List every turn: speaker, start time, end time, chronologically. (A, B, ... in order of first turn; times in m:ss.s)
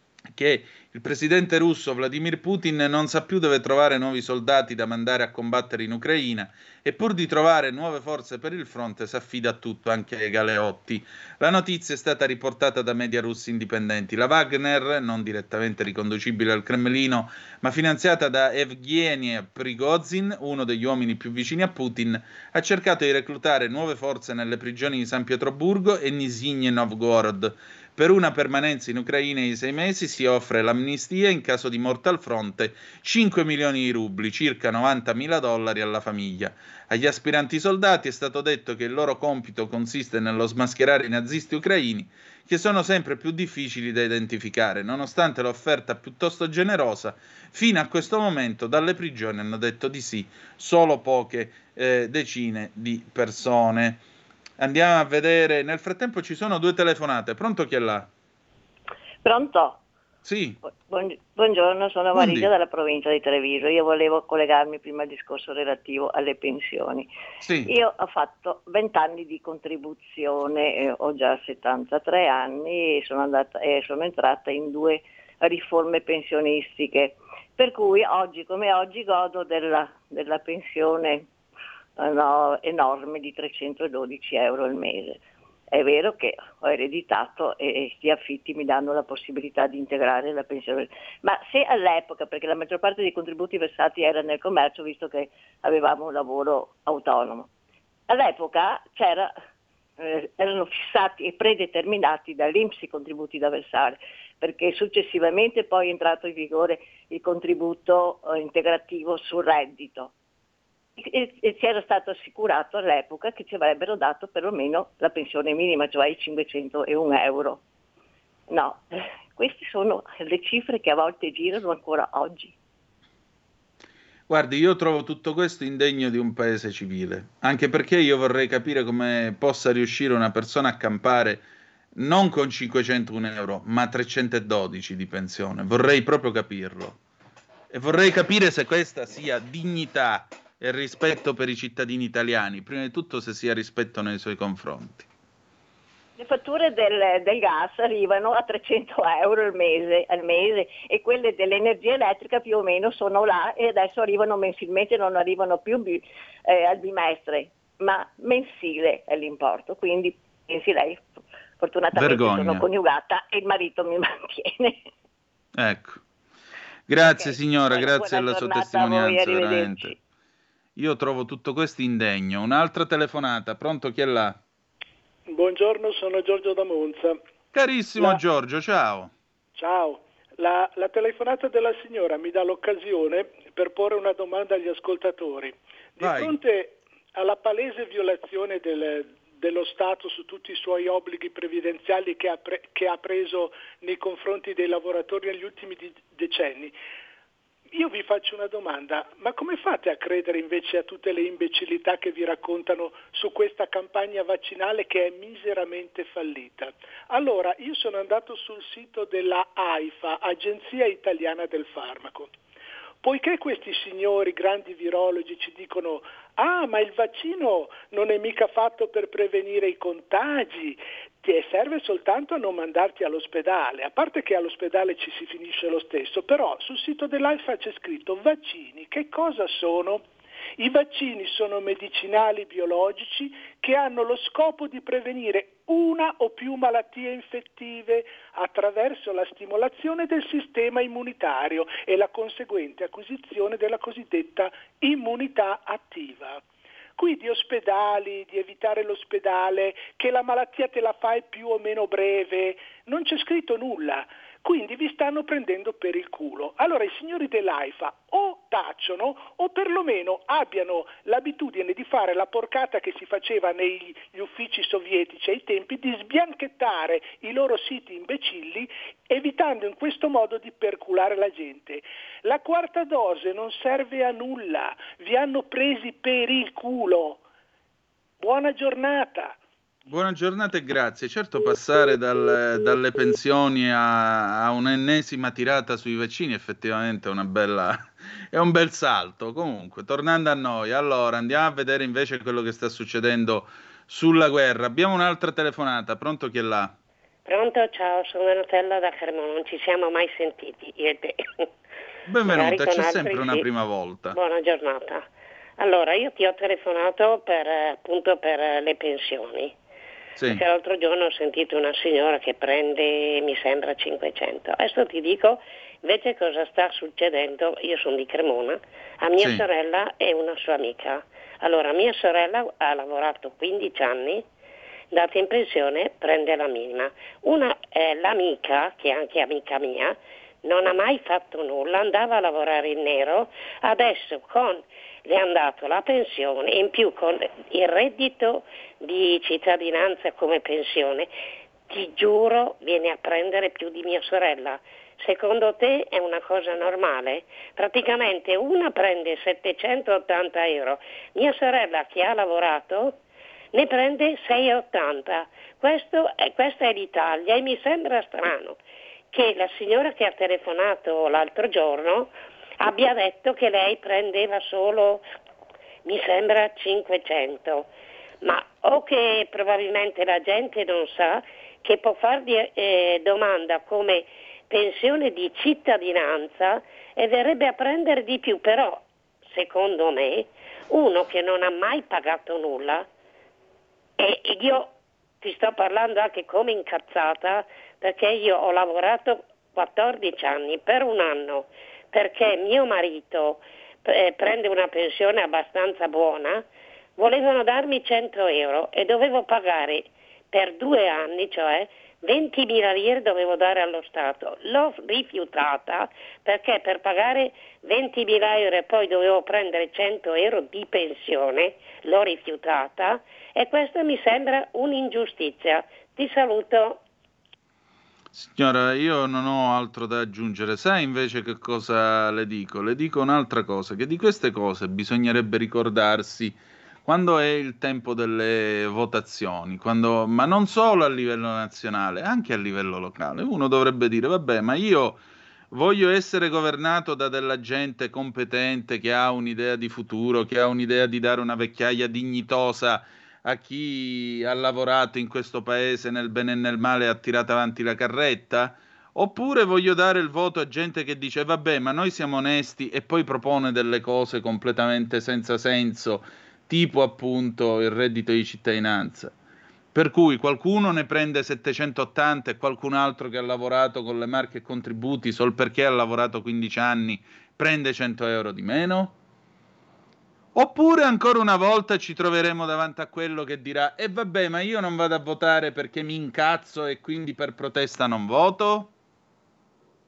0:00.3-0:54.0 A
0:54.6-0:58.1 A
0:59.2-0:59.8 B
1:00.2-1:00.6 A
1:00.6-1:07.1 B
1:02.1-1:02.5 A
1:07.4-1:07.7 A
1:07.6-1:21.3 B
1:22.0-1:25.2 B
1:25.7-1:37.5 B
1:38.1-1:39.3 B
1:40.0-1:50.1 B
1:51.0-1:57.6 B
1:58.5-1:58.8 B
1:59.3-2:02.5 B
2:04.3-2:17.0 A
2:17.7-2:25.1 A
2:26.2-2:41.0 B
2:41.6-2:44.8 B
2:41.9-2:42.7 A
2:45.6-2:46.0 A
2:46.9-2:50.0 A
2:47.0-2:50.0 B
2:50.8-2:54.4 A
2:55.3-2:57.2 C
2:57.5-2:59.1 A
2:59.5-3:16.8 C
3:06.0-3:06.3 A
3:17.7-3:32.3 C
3:33.0-3:50.0 C
3:50.6-4:06.4 C
4:07.0-4:37.2 C
4:38.2-4:39.4 C
4:39.9-4:56.7 A
4:57.2-5:01.5 D
5:02.1-5:04.2 A
5:02.3-5:03.5 D
5:04.1-5:05.0 D
5:05.6-5:09.5 D
5:10.2-5:10.4 A
5:10.3-5:24.2 D
5:19.2-5:19.4 A
5:24.9-5:41.1 D
5:41.7-5:53.0 D
5:53.5-5:58.6 D
5:59.1-6:05.0 D
6:05.9-6:07.7 D
6:08.2-6:22.9 D
6:24.0-6:36.4 D
6:37.0-6:56.8 D
6:58.1-7:39.1 A
7:39.7-7:49.0 A
7:50.3-7:58.7 A